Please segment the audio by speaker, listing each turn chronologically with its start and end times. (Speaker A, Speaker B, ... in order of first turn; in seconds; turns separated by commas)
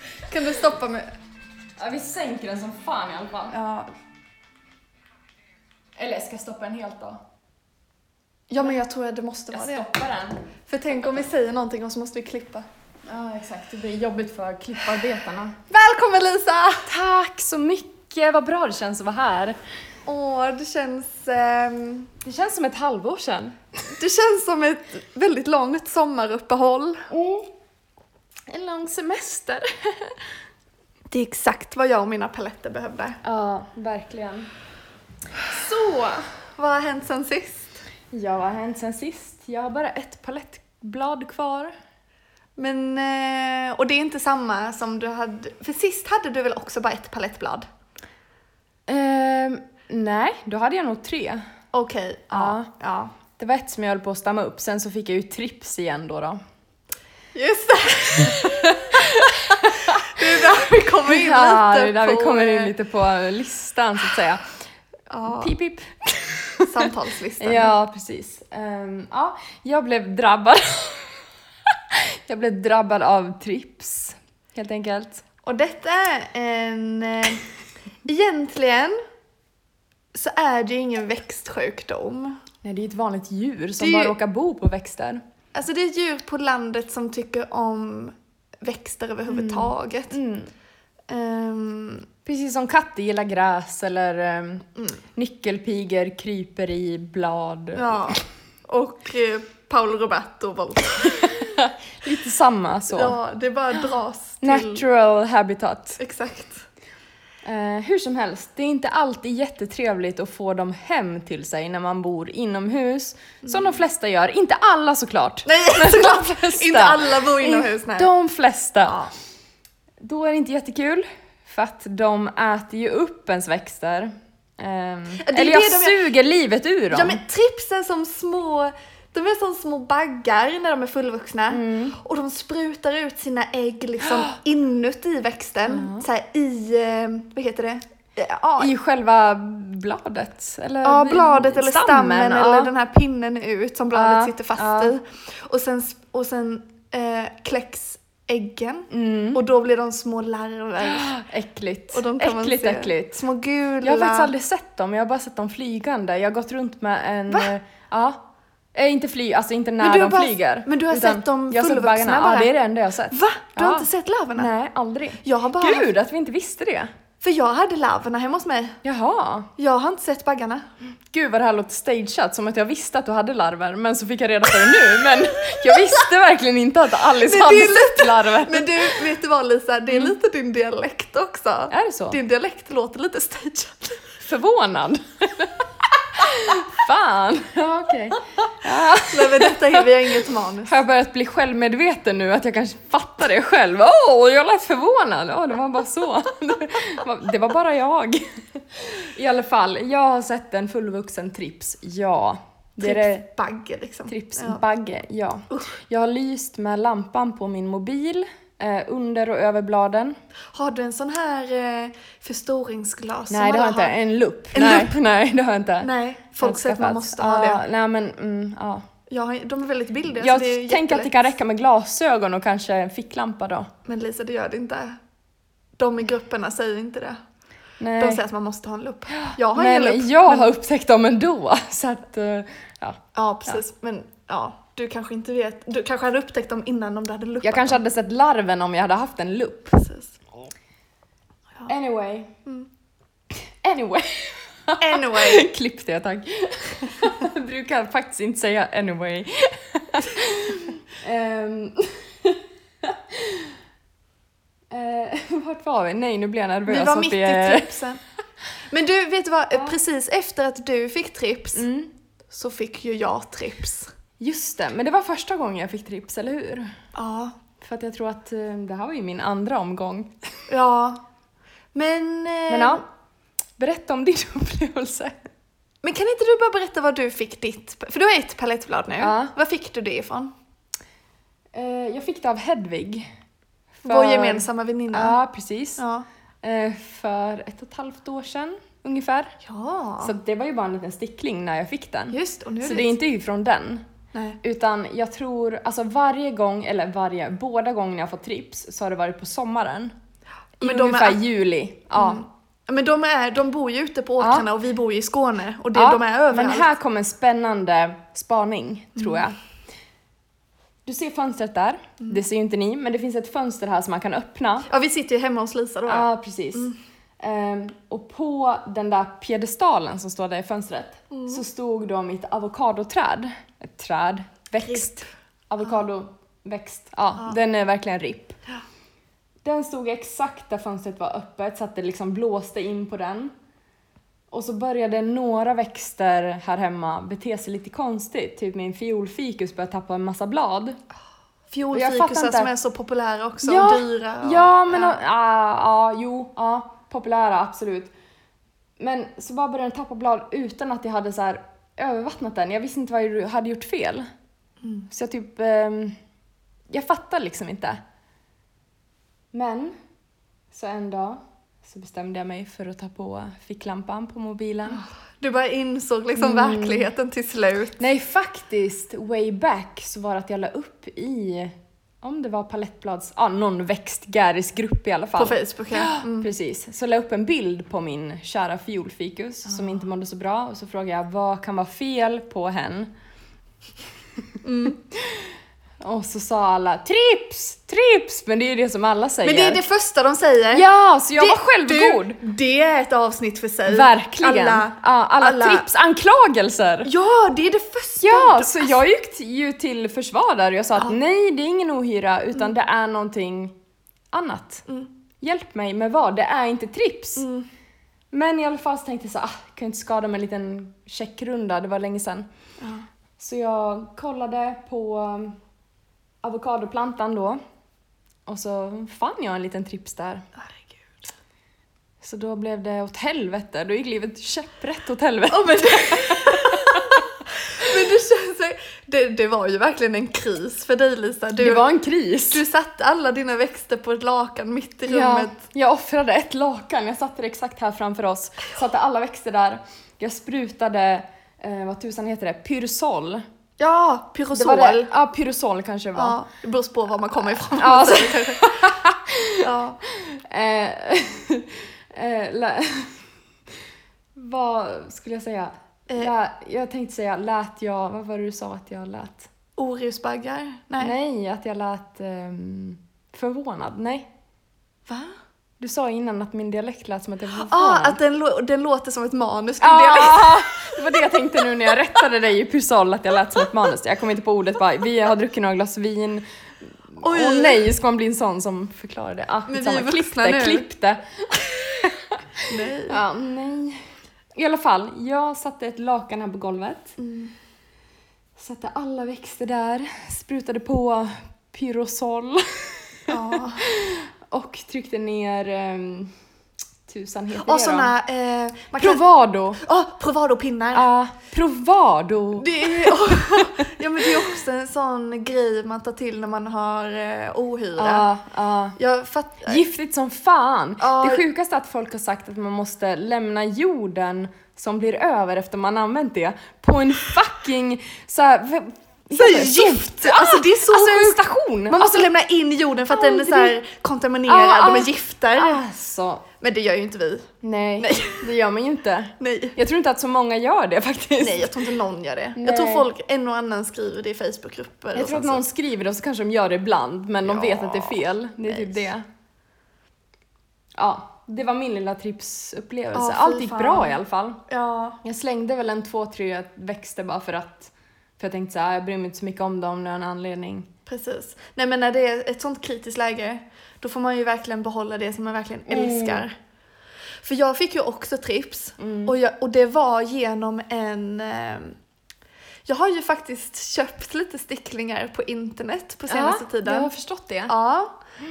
Speaker A: 0.3-1.1, Speaker B: 1.8-3.5, Speaker A: 3.5-3.9, Speaker B: 6.0-7.2, Speaker A: 8.5-9.9, Speaker B: 9.5-10.5, Speaker A: 10.7-12.7, Speaker B: 13.0-15.6, Speaker A: 15.7-16.9, Speaker B: 16.9-19.6, Speaker A: 20.1-22.1, Speaker B: 22.2-23.6, Speaker A: 23.9-27.1, Speaker B: 27.1-27.5, Speaker B: 28.5-30.2, Speaker A: 31.1-33.2, Speaker B: 33.2-34.5, Speaker B: 35.4-36.2, Speaker A: 36.6-37.8, Speaker B: 38.1-41.7, Speaker A: 42.6-47.7, Speaker B: 48.9-51.5, Speaker A: 51.7-53.1, Speaker B: 52.3-52.7, Speaker B: 53.4-56.4, Speaker A: 57.3-62.7, Speaker B: 58.2-64.4, Speaker A: 65.1-65.5, Speaker B: 65.3-66.7, Speaker A: 66.6-67.7, Speaker B: 67.4-75.2, Speaker A: 75.4-77.4, Speaker A: 78.0-79.0, Speaker A: 80.1-82.4, Speaker B: 82.6-85.2, Speaker A: 83.8-84.2, Speaker A: 85.5-90.2, Speaker B: 89.3-90.5, Speaker A: 91.1-92.1, Speaker B: 92.2-98.0, Speaker A: 97.7-101.3, Speaker B: 101.1-103.2, Speaker A: 102.9-104.8, Speaker B: 103.8-106.0, Speaker A: 106.0-106.6, Speaker B: 107.4-119.0, Speaker A: 113.4-113.7, Speaker A: 115.5-118.1, Speaker B: 120.0-127.2, Speaker A: 125.2-126.0, Speaker A: 126.9-138.7, Speaker B: 131.5-131.9, Speaker B: 135.7-136.0, Speaker B: 138.6-142.7, Speaker A: 140.8-151.1, Speaker B: 143.9-144.9, Speaker B: 148.9-149.4, Speaker B: 150.8-153.2, Speaker A: 151.9-154.3, Speaker B: 153.8-158.2, Speaker B: 158.7-166.9, Speaker A: 159.8-162.5, Speaker A: 163.1-164.5, Speaker A: 165.2-165.9, Speaker A: 167.2-168.8, Speaker B: 168.8-169.5, Speaker A: 169.6-170.7, Speaker B: 171.0-179.0, Speaker A: 177.1-184.0, Speaker B: 181.7-182.2, Speaker B: 184.2-203.2, Speaker A: 189.0-190.8, Speaker A: 202.8-204.6, Speaker B: 204.1-210.2, Speaker A: 210.5-213.9, Speaker B: 213.3-218.8, Speaker A: 214.5-214.9, Speaker A: 215.8-217.6, Speaker A: 219.1-221.1, Speaker B: 220.2-223.7, Speaker A: 223.8-225.0, Speaker A: 225.8-227.2, Speaker B: 227.8-228.2, Speaker A: 228.0-230.5, Speaker B: 229.1-233.6, Speaker A: 233.1-237.8, Speaker B: 237.4-239.8, Speaker A: 239.8-240.2, Speaker B: 241.7-242.3, Speaker B: 243.6-253.6, Speaker A: 244.8-245.5, Speaker B: 254.7-257.8, Speaker A: 256.7-258.0, Speaker A: 258.7-261.7, Speaker B: 261.5-261.9, Speaker A: 262.3-263.9, Speaker B: 264.2-266.7, Speaker A: 266.9-267.4, Speaker B: 267.6-270.1, Speaker A: 270.5-271.0, Speaker A: 271.7-272.8, Speaker B: 272.5-272.8, Speaker B: 273.6-275.3, Speaker A: 275.8-280.3, Speaker B: 279.0-279.3, Speaker B: 281.5-283.1, Speaker B: 283.8-285.8, Speaker A: 283.9-285.1, Speaker A: 285.8-286.0, Speaker B: 286.4-289.3, Speaker A: 289.4-290.1, Speaker B: 290.0-293.8, Speaker A: 292.1-293.0, Speaker A: 294.1-294.4, Speaker B: 294.4-299.9, Speaker A: 300.6-301.2, Speaker B: 300.6-302.2, Speaker A: 301.9-306.7, Speaker B: 304.2-304.4, Speaker B: 305.7-309.4, Speaker B: 310.8-314.7, Speaker A: 314.7-316.8, Speaker B: 315.9-328.4, Speaker A: 321.1-321.4, Speaker B: 329.4-333.3, Speaker B: 334.3-340.8, Speaker A: 341.5-345.0, Speaker B: 341.7-342.5, Speaker B: 343.4-347.9, Speaker B: 348.8-354.1, Speaker B: 354.9-355.9, Speaker B: 356.7-357.8, Speaker B: 359.3-359.8, Speaker B: 360.5-364.8, Speaker A: 364.7-367.8, Speaker B: 366.1-366.9, Speaker B: 367.8-382.9, Speaker A: 375.2-376.3, Speaker A: 384.4-384.8, Speaker B: 384.9-389.6, Speaker A: 389.2-395.6, Speaker B: 390.5-392.2, Speaker B: 393.7-396.9, Speaker A: 396.8-398.8, Speaker B: 398.0-403.5, Speaker B: 404.1-404.6, Speaker B: 405.2-407.2, Speaker A: 407.2-407.5, Speaker B: 408.1-412.3, Speaker B: 413.2-415.4, Speaker B: 416.2-417.4, Speaker B: 418.3-420.2, Speaker A: 420.4-420.8, Speaker B: 422.0-427.0, Speaker A: 425.3-431.6, Speaker B: 431.4-432.4, Speaker A: 432.3-435.4, Speaker B: 434.9-443.2, Speaker A: 443.6-444.9, Speaker B: 444.3-446.2, Speaker A: 445.9-448.7, Speaker B: 447.4-453.0, Speaker A: 449.4-449.8, Speaker B: 454.1-459.3, Speaker A: 459.6-460.9, Speaker B: 460.8-464.1, Speaker A: 464.9-465.1, Speaker B: 465.6-468.0, Speaker A: 467.3-471.2, Speaker B: 469.6-476.2, Speaker B: 476.9-483.8, Speaker A: 477.0-477.6, Speaker A: 479.5-480.7, Speaker A: 482.4-483.0, Speaker B: 484.3-486.9, Speaker A: 487.0-487.3, Speaker B: 488.4-496.1, Speaker A: 493.1-493.6, Speaker B: 496.9-497.9, Speaker A: 497.4-499.0, Speaker B: 498.8-499.6, Speaker A: 499.6-500.9, Speaker B: 500.7-504.3, Speaker A: 502.4-508.1, Speaker B: 507.8-508.8, Speaker A: 508.8-509.6, Speaker B: 509.4-522.1, Speaker A: 510.8-511.2, Speaker A: 519.1-525.6, Speaker B: 522.9-523.6, Speaker B: 524.2-526.2, Speaker A: 526.4-528.3, Speaker B: 527.4-531.7, Speaker A: 529.2-529.6, Speaker A: 531.2-535.4, Speaker B: 532.4-532.9, Speaker B: 534.9-539.0, Speaker A: 537.2-538.9, Speaker B: 540.7-544.4, Speaker A: 542.9-545.0, Speaker B: 545.0-550.7, Speaker A: 550.9-556.3, Speaker B: 555.7-556.2, Speaker A: 557.2-561.8, Speaker B: 558.8-559.1, Speaker A: 562.6-566.9, Speaker B: 566.1-567.5, Speaker A: 567.5-568.0